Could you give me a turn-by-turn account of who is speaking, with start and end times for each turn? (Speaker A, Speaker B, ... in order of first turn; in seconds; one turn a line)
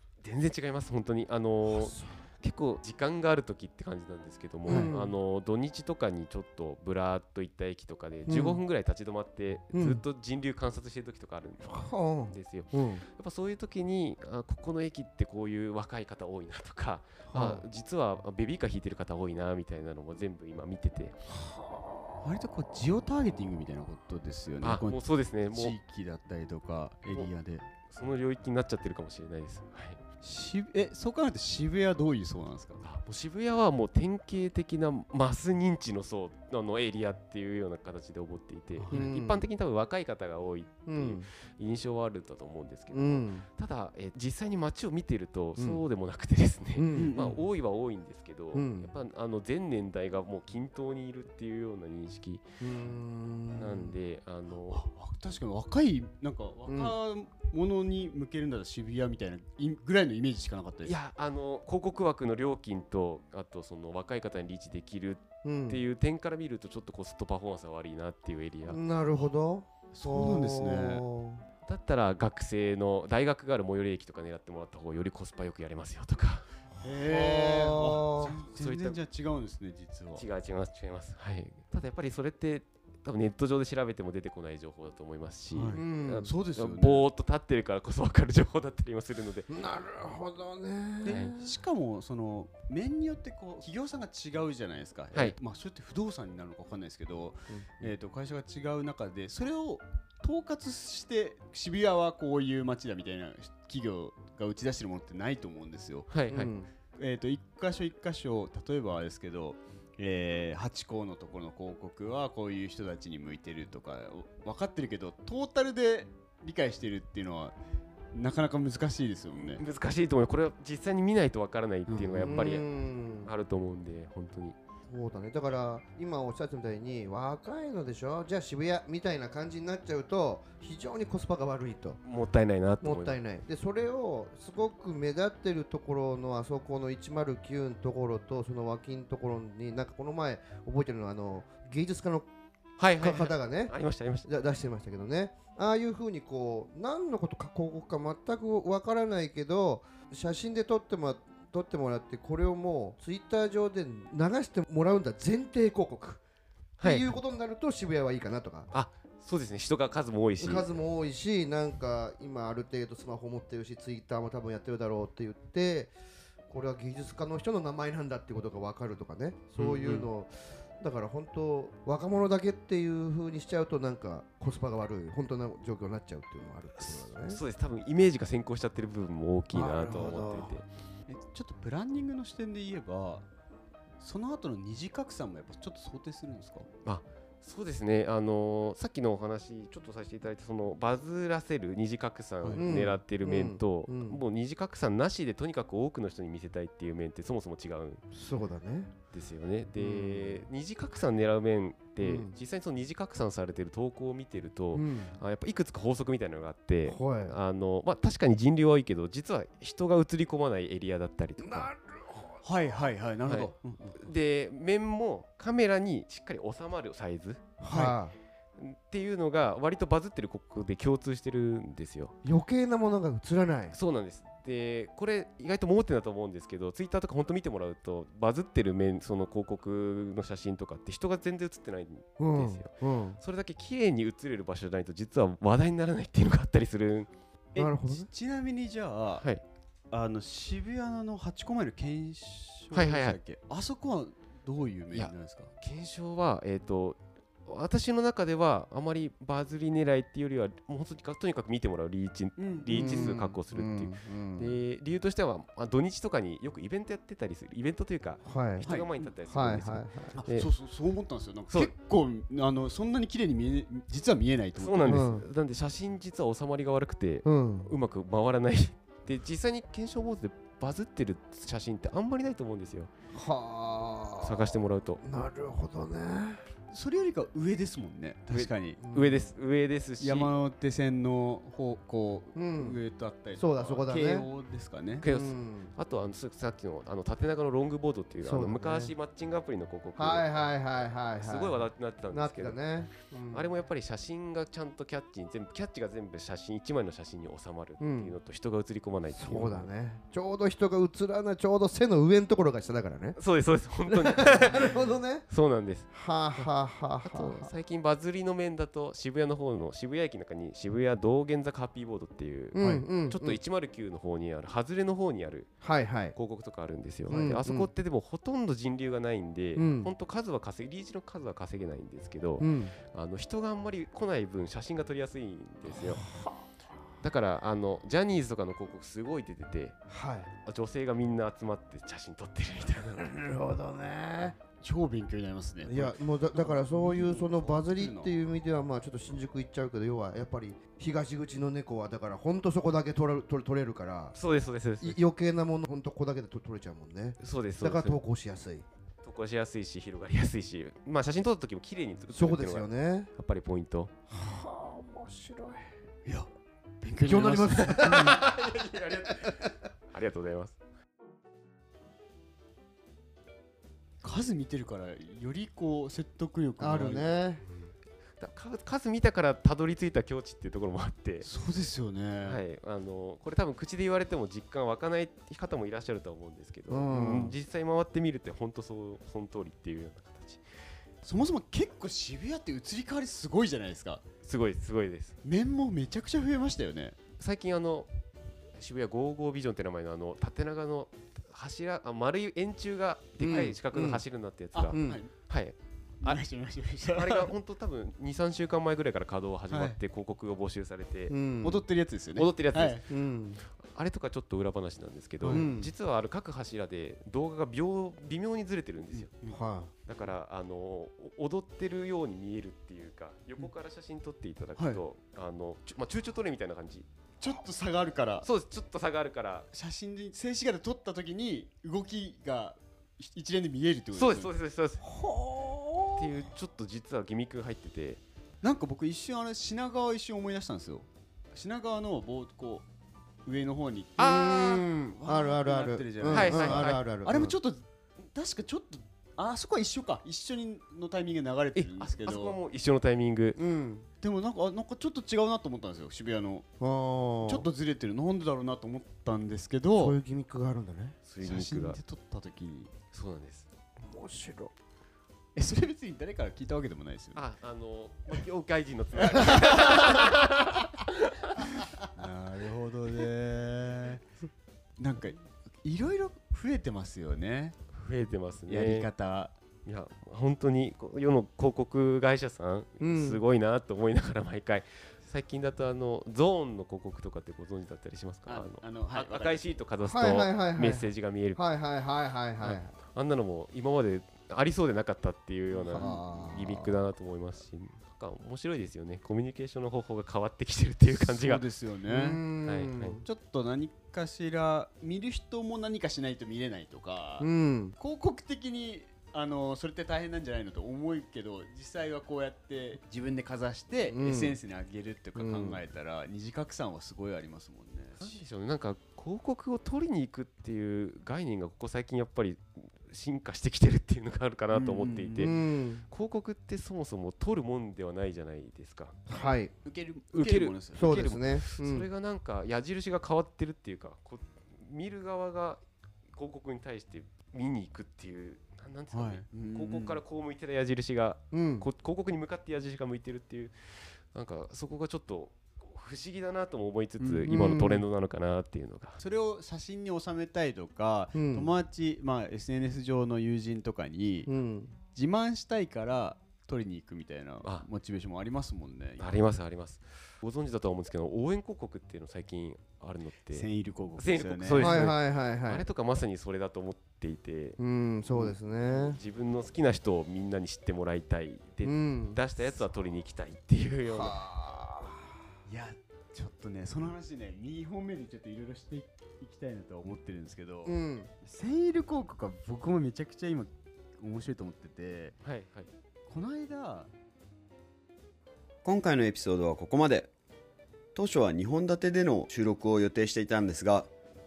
Speaker A: 0.2-21.2
Speaker B: 1.7-2.2
Speaker B: 4.7-5.1
Speaker C: 4.7-5.0
Speaker B: 8.3-8.6
Speaker B: 9.7-10.0
Speaker B: 11.6-13.0
Speaker B: 17.3-17.6
Speaker B: 21.3-22.2
Speaker C: 22.2-27.7
Speaker A: 24.6-25.8
Speaker A: 27.9-30.0
Speaker C: 30.2-32.8
Speaker A: 32.8-52.4
Speaker C: 38.8-39.2
Speaker B: 38.9-39.4
Speaker B: 40.9-41.3
Speaker B: 42.9-43.5
Speaker B: 45.6-45.8
Speaker B: 46.8-47.1
Speaker C: 46.9-47.4
Speaker B: 48.5-48.9
Speaker B: 52.6-54.0
Speaker A: 53.6-54.9
Speaker C: 54.7-61.0
Speaker B: 56.7-57.0
Speaker A: 60.9-68.8
Speaker B: 65.4-65.8
Speaker B: 68.7-71.4
Speaker C: 69.9-71.1
Speaker A: 71.7-76.5
Speaker C: 76.8-80.3
Speaker B: 76.9-78.4
Speaker A: 78.6-79.0
Speaker A: 80.2-89.5
Speaker C: 85.5-87.1
Speaker B: 85.7-86.3
Speaker B: 89.5-91.6
Speaker C: 91.0-106.1
Speaker A: 91.1-91.3
Speaker A: 106.1-106.5
Speaker B: 106.3-106.7
Speaker C: 107.0-117.5
Speaker C: 118.1-119.6
Speaker A: 119.6-122.7
Speaker C: 121.9-122.4
Speaker B: 122.2-123.3
Speaker A: 123.2-124.6
Speaker B: 124.9-132.0
Speaker A: 132.0-133.2
Speaker B: 132.8-142.3
Speaker A: 142.8-144.3
Speaker B: 143.0-156.2
Speaker A: 156.8-157.1
Speaker B: 156.8-158.7
Speaker A: 158.7-160.7
Speaker B: 160.4-165.9
Speaker B: 166.5-177.4
Speaker A: 169.6-170.1
Speaker A: 176.8-180.7
Speaker B: 179.5-180.6
Speaker C: 181.1-183.3
Speaker C: 184.0-186.7
Speaker A: 186.8-198.0
Speaker C: 192.4-192.7
Speaker B: 192.6-194.2
Speaker B: 198.1-198.9
Speaker A: 199.1-211.7
Speaker B: 199.8-200.5
Speaker B: 202.0-202.3
Speaker B: 204.7-205.2
Speaker B: 206.9-207.4
Speaker B: 211.4-212.5
Speaker C: 212.4-214.0
Speaker A: 213.3-217.4
Speaker B: 217.6-218.2
Speaker C: 217.7-218.0
Speaker A: 218.6-222.2
Speaker B: 222.2-223.8
Speaker A: 223.7-237.1
Speaker B: 232.2-233.2
Speaker C: 237.5-239.3
Speaker B: 237.6-238.1
Speaker C: 239.9-245.5
Speaker A: 242.7-243.2
Speaker A: 244.9-260.5
Speaker C: 252.4-253.2
Speaker B: 252.7-254.6
Speaker B: 258.2-258.7
Speaker C: 258.6-259.1
Speaker B: 259.3-260.2
Speaker C: 260.1-265.1
Speaker A: 264.6-272.9
Speaker B: 264.9-265.2
Speaker B: 267.2-267.7
Speaker B: 273.1-276.4
Speaker A: 274.2-275.0
Speaker C: 276.7-278.8
Speaker A: 278.3-280.3
Speaker B: 278.8-279.3
Speaker C: 280.0-285.0
Speaker B: 282.4-282.8
Speaker B: 283.4-284.3
Speaker A: 285.0-290.2
Speaker B: 285.0-285.7
Speaker B: 288.2-288.9
Speaker B: 290.0-291.6
Speaker A: 291.2-292.6
Speaker B: 292.1-293.5
Speaker A: 293.3-299.7
Speaker B: 297.8-298.1
Speaker B: 299.2-303.2
Speaker A: 303.2-306.5
Speaker B: 303.9-305.2
Speaker B: 305.9-307.5
Speaker A: 307.0-315.5
Speaker B: 312.5-313.4
Speaker C: 312.6-312.9
Speaker B: 315.6-316.2
Speaker A: 316.1-326.0
Speaker B: 317.1-317.7
Speaker B: 319.6-319.9
Speaker B: 322.4-322.8
Speaker B: 325.7-326.4
Speaker A: 327.0-329.8
Speaker B: 329.9-330.3
Speaker A: 330.4-333.0
Speaker B: 332.8-334.4
Speaker C: 334.6-338.1
Speaker B: 335.6-344.2
Speaker A: 344.1-345.0
Speaker B: 344.8-348.6
Speaker A: 347.2-348.0
Speaker A: 349.0-353.9
Speaker B: 352.1-353.1
Speaker B: 354.1-355.8
Speaker C: 356.8-358.3
Speaker B: 357.1-358.2
Speaker A: 357.8-360.6
Speaker C: 364.0-367.1
Speaker B: 366.6-367.4
Speaker A: 367.4-371.3
Speaker C: 371.2-372.4
Speaker A: 372.2-380.4
Speaker B: 376.7-377.4
Speaker C: 381.0-384.0
Speaker A: 384.2-385.2
Speaker C: 385.2-387.0
Speaker A: 387.2-387.9
Speaker A: 388.6-396.2
Speaker B: 393.2-394.0
Speaker C: 393.2-394.0
Speaker C: 394.6-395.1
Speaker B: 394.7-395.0
Speaker C: 396.0-397.3
Speaker A: 396.9-401.1
Speaker C: 399.5-399.8
Speaker B: 401.1-401.6
Speaker C: 401.4-402.8
Speaker A: 402.2-402.8
Speaker B: 402.9-403.4
Speaker A: 403.6-409.1
Speaker C: 405.2-405.5
Speaker B: 405.3-405.7
Speaker C: 408.9-409.4
Speaker B: 409.3-409.7
Speaker A: 409.9-416.9
Speaker C: 414.6-414.8
Speaker C: 417.2-418.3
Speaker A: 418.2-419.5
Speaker C: 419.5-424.3
Speaker A: 423.9-424.8
Speaker B: 424.9-426.1
Speaker A: 426.0-428.0
Speaker C: 428.4-432.6
Speaker C: 433.2-434.0
Speaker A: 434.0-434.7
Speaker B: 434.0-437.4
Speaker C: 434.9-442.4
Speaker A: 436.1-436.8
Speaker A: 441.6-443.4
Speaker B: 443.4-443.9
Speaker C: 444.0-446.5
Speaker B: 446.6-447.5
Speaker C: 447.2-450.0
Speaker B: 449.8-451.0
Speaker A: 451.1-451.8
Speaker C: 451.2-452.7
Speaker A: 452.9-453.5
Speaker B: 453.8-454.5
Speaker C: 455.4-457.2
Speaker A: 457.2-461.6
Speaker C: 459.0-460.2
Speaker C: 461.6-464.0
Speaker C: 464.8-467.6
Speaker A: 467.7-468.9
Speaker C: 468.5-469.3
Speaker A: 469.6-481.4
Speaker B: 472.8-473.2
Speaker C: 478.3-479.4
Speaker B: 479.8-482.7
Speaker A: 482.4-491.4
Speaker C: 485.6-486.5
Speaker B: 485.7-486.8
Speaker C: 490.9-492.3
Speaker B: 491.9-493.0
Speaker A: 492.4-493.0
Speaker C: 493.0-508.2
Speaker B: 497.2-497.8
Speaker B: 503.9-504.4
Speaker B: 505.2-505.6
Speaker A: 508.0-515.4
Speaker C: 514.5-515.4
Speaker B: 515.2-515.8
Speaker A: 515.9-519.0
Speaker B: 519.1-519.5
Speaker C: 519.6-521.1
Speaker A: 520.1-525.6
Speaker B: 520.7-521.9
Speaker A: 526.1-539.0
Speaker C: 528.9-530.0
Speaker B: 531.3-531.7
Speaker C: 537.0-537.4
Speaker B: 537.3-537.9
Speaker C: 539.0-544.3
Speaker B: 541.1-541.5
Speaker B: 544.3-544.8
Speaker C: 544.9-549.3
Speaker A: 549.0-553.5
Speaker C: 553.3-554.9
Speaker A: 554.0-557.6
Speaker B: 554.5-555.6
Speaker B: 557.6-559.0
Speaker A: 558.7-564.2
Speaker B: 561.6-562.2
Speaker B: 563.9-565.2
Speaker C: 565.5-575.2
Speaker B: 570.6-571.1
Speaker A: 575.2-575.7
Speaker C: 576.1-576.9
Speaker D: 578.6-580.1
Speaker D: 581.0-583.9